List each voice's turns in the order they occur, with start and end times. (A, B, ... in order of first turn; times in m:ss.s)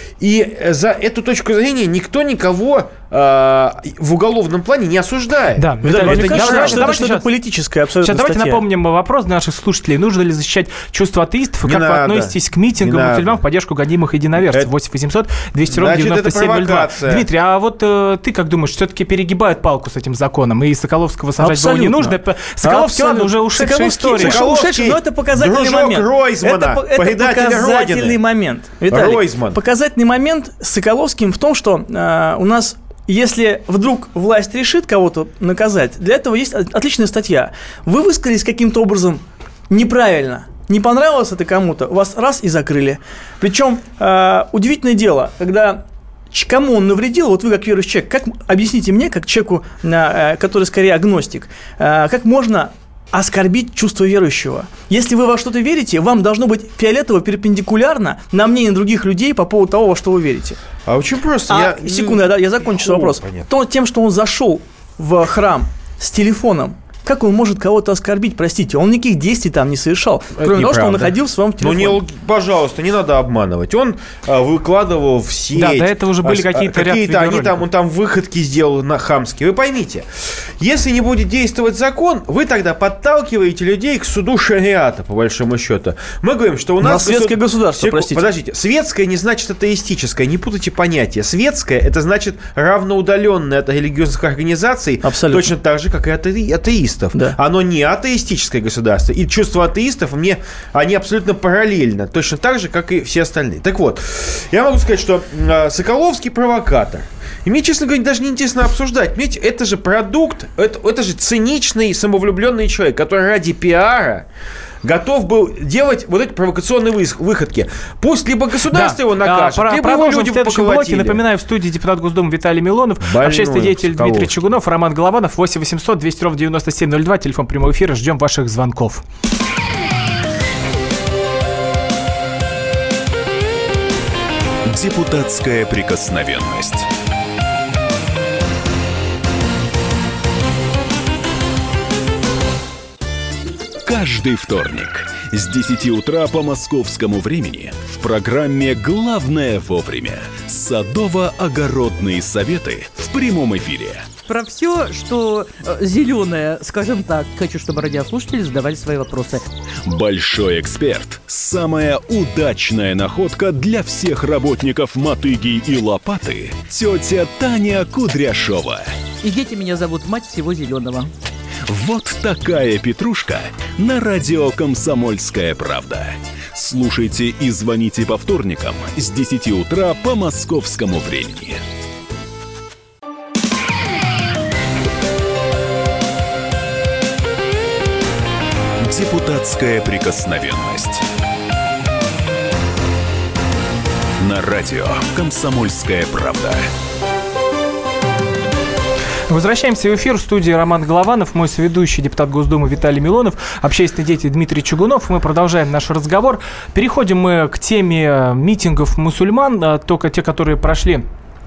0:00.2-0:07.0 A
0:05.6-0:07.3 B
0:05.8-0:08.6 C
0:08.0-0:24.4 B
0:11.6-0:13.4 A
0:15.7-0:17.2 A
0:21.4-1:00.6 C
0:24.2-0:28.2 A
0:28.9-0:29.6 A
1:00.9-1:03.5 A
1:01.5-1:12.0 C
1:10.4-1:54.3 A
1:15.6-1:17.6 B
1:26.8-1:28.2 C
1:35.0-1:35.5 C
1:54.8-2:01.2 A
1:58.7-2:09.0 B
2:03.0-2:04.3 A
2:14.7-2:16.9 D
2:23.8-2:34.1 D
2:34.3-2:39.4 E
2:39.9-2:48.9 D
2:49.2-2:51.1 E
2:51.7-3:01.6 D
3:08.8-3:11.0 D
3:14.2-3:16.7 D
3:19.3-3:31.0 B